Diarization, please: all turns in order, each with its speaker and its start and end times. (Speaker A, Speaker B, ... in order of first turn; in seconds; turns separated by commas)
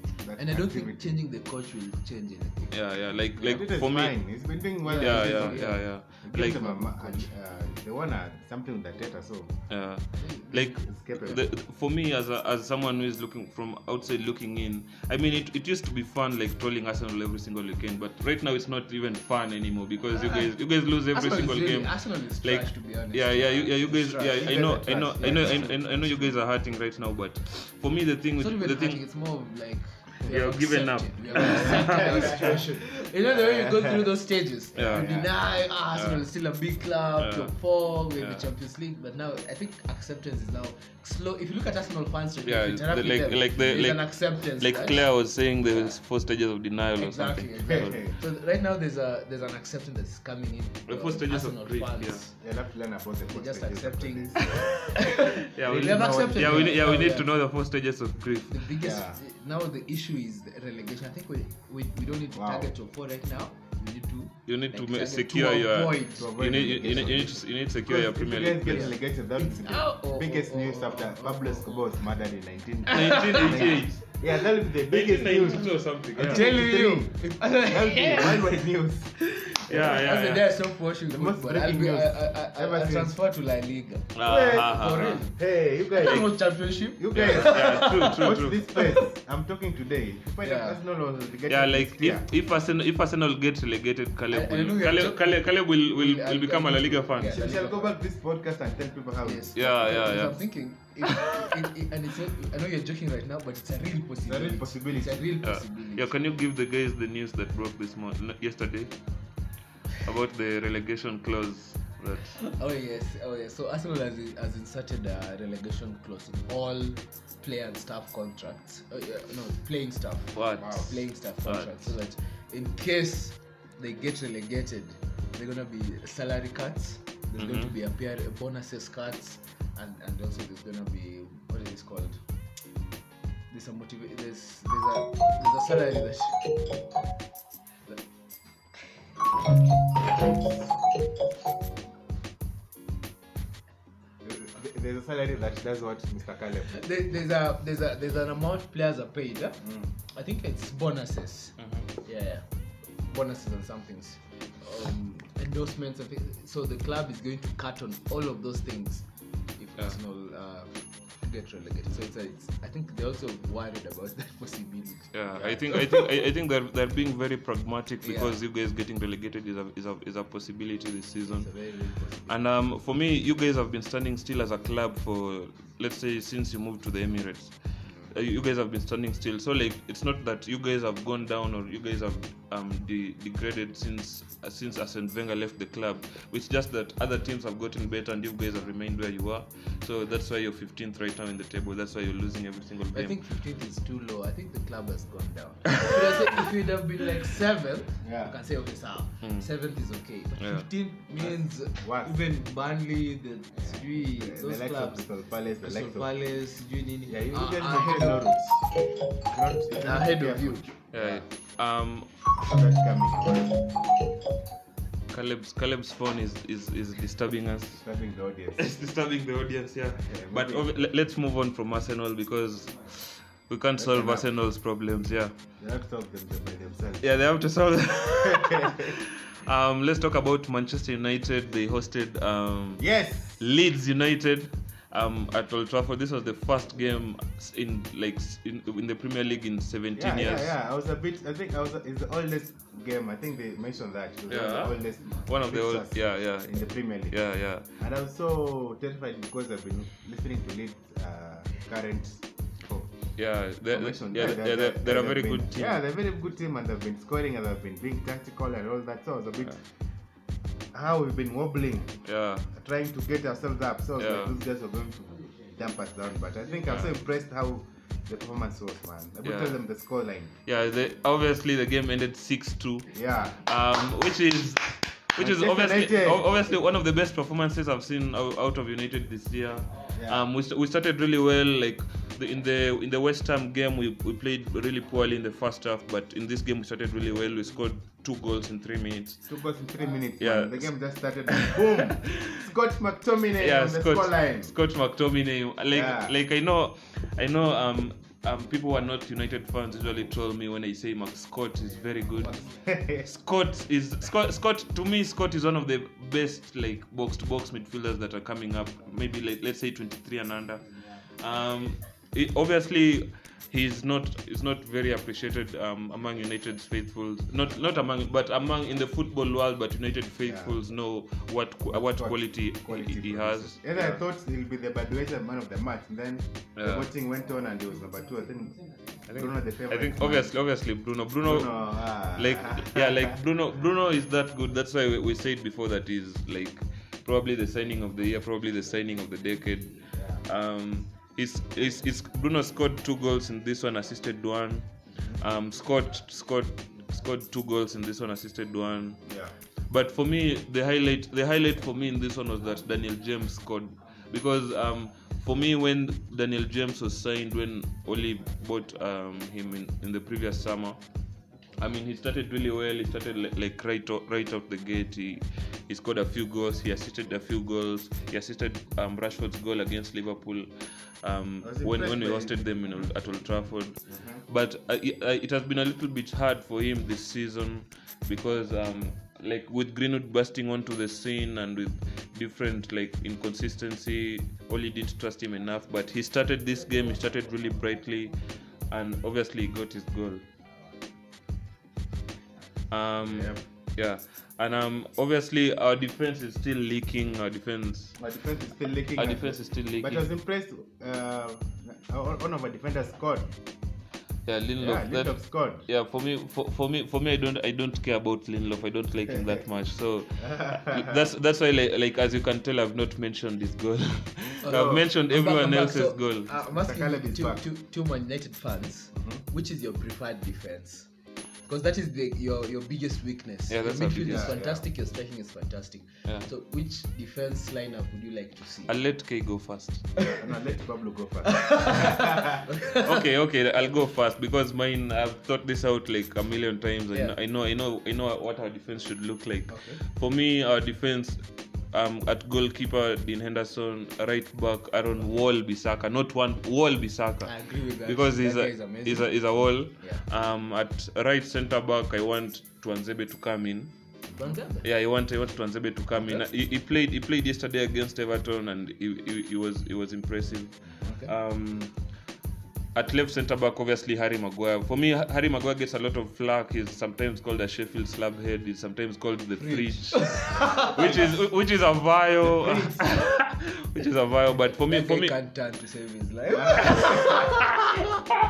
Speaker A: 0.2-1.2, Speaker B: 0.4-2.8, Speaker C: 2.7-4.4, Speaker A: 3.4-9.6, Speaker B: 4.8-7.3, Speaker C: 4.9-6.7, Speaker C: 9.7-29.0, Speaker B: 10.1-10.7, Speaker A: 10.6-11.4, Speaker B: 20.2-20.5, Speaker B: 21.1-26.2, Speaker A: 24.4-26.3, Speaker B: 28.4-45.1, Speaker C: 30.2-32.5, Speaker A: 31.4-32.6, Speaker A: 33.2-34.1, Speaker A: 34.7-35.3, Speaker C: 34.8-35.1, Speaker C: 35.9-36.2, Speaker C: 37.2-38.5, Speaker C: 42.4-48.0, Speaker B: 45.6-46.0, Speaker B: 47.0-52.3, Speaker A: 47.6-48.2, Speaker C: 50.9-52.2, Speaker A: 52.4-57.0, Speaker B: 53.3-57.3, Speaker C: 55.5-58.7, Speaker B: 58.5-66.3, Speaker A: 58.8-59.2, Speaker A: 62.3-62.7, Speaker C: 64.5-68.9, Speaker A: 66.1-79.1, Speaker B: 68.7-71.9, Speaker B: 72.8-73.8, Speaker C: 72.9-74.0, Speaker C: 74.8-76.5, Speaker B: 76.2-78.7, Speaker B: 79.3-85.4, Speaker A: 79.7-80.1, Speaker C: 79.7-80.5, Speaker A: 81.1-83.1, Speaker C: 84.1-85.2, Speaker A: 84.2-86.3, Speaker B: 85.9-89.0, Speaker C: 86.0-86.3, Speaker A: 87.0-92.3, Speaker C: 87.1-88.6, Speaker B: 90.4-90.8, Speaker C: 91.5-97.5, Speaker B: 94.3-97.9, Speaker A: 97.3-99.6, Speaker B: 99.2-106.1, Speaker C: 99.5-100.4, Speaker A: 104.2-105.3, Speaker C: 105.4-108.9, Speaker C: 110.0-112.4, Speaker B: 112.4-132.2, Speaker C: 120.3-121.9, Speaker A: 120.6-121.0, Speaker C: 127.4-127.7, Speaker B: 133.5-136.7, Speaker A: 144.2-146.8, Speaker B: 146.7-152.4, Speaker A: 149.6-149.9, Speaker C: 151.6-151.9, Speaker B: 153.0-166.1, Speaker C: 165.1-171.5, Speaker B: 168.0-168.4, Speaker B: 171.3-172.3, Speaker C: 172.3-177.6, Speaker B: 177.8-178.1, Speaker C: 178.1-193.2, Speaker B: 192.9-205.1, Speaker A: 198.0-198.4, Speaker C: 199.2-199.5, Speaker C: 200.4-200.7, Speaker A: 201.2-202.2, Speaker A: 203.6-206.1, Speaker B: 205.6-209.0, Speaker A: 207.1-208.7, Speaker A: 209.2-211.2, Speaker B: 209.7-210.7, Speaker C: 210.9-212.1, Speaker A: 212.4-213.7, Speaker C: 215.1-217.8, Speaker A: 217.7-218.7, Speaker C: 218.6-225.3, Speaker A: 219.9-220.8, Speaker A: 223.8-224.3, Speaker A: 225.6-227.1, Speaker C: 227.0-240.5, Speaker A: 228.2-228.9, Speaker A: 232.8-233.4, Speaker A: 239.9-247.2, Speaker C: 244.3-247.7, Speaker A: 247.8-252.9, Speaker C: 253.2-255.8, Speaker A: 253.7-259.6, Speaker A: 260.7-262.0, Speaker C: 262.0-262.5, Speaker A: 262.5-270.4, Speaker C: 264.0-264.4, Speaker C: 269.2-269.6, Speaker C: 270.4-289.2, Speaker A: 272.9-273.4, Speaker A: 275.2-276.3, Speaker A: 279.9-280.3, Speaker A: 289.3-294.6, Speaker C: 290.2-290.8, Speaker C: 291.3-292.4, Speaker C: 293.4-302.4, Speaker A: 295.7-296.1, Speaker A: 302.2-303.1, Speaker C: 303.0-310.6, Speaker C: 311.2-324.0, Speaker A: 320.2-320.6, Speaker A: 321.7-330.3, Speaker C: 326.6-326.9, Speaker C: 329.1-349.1, Speaker A: 331.2-333.1, Speaker A: 339.9-340.2, Speaker A: 345.0-345.2, Speaker A: 349.0-349.3, Speaker C: 349.7-360.8, Speaker C: 361.6-370.5, Speaker C: 371.0-388.2, Speaker A: 371.4-372.8, Speaker A: 373.9-374.2, Speaker C: 388.7-390.2, Speaker C: 392.7-397.9, Speaker A: 393.0-393.4, Speaker A: 398.0-403.3, Speaker C: 398.9-400.1, Speaker C: 404.2-416.3, Speaker A: 404.6-405.6, Speaker A: 410.2-411.1, Speaker B: 414.4-420.9, Speaker A: 414.4-414.9, Speaker A: 416.4-417.4, Speaker A: 418.9-419.2, Speaker B: 421.5-428.7, Speaker C: 423.5-424.4, Speaker A: 424.0-424.6, Speaker C: 428.7-429.9, Speaker A: 430.1-432.4, Speaker B: 431.2-433.0, Speaker C: 432.8-453.7, Speaker B: 439.5-439.8, Speaker B: 447.2-450.0, Speaker B: 454.1-454.7, Speaker C: 454.6-461.7, Speaker A: 460.7-460.9, Speaker B: 460.8-461.1, Speaker C: 462.7-475.1, Speaker B: 469.4-471.1, Speaker A: 470.8-471.1, Speaker A: 472.4-472.7, Speaker B: 474.5-477.5, Speaker A: 476.3-477.2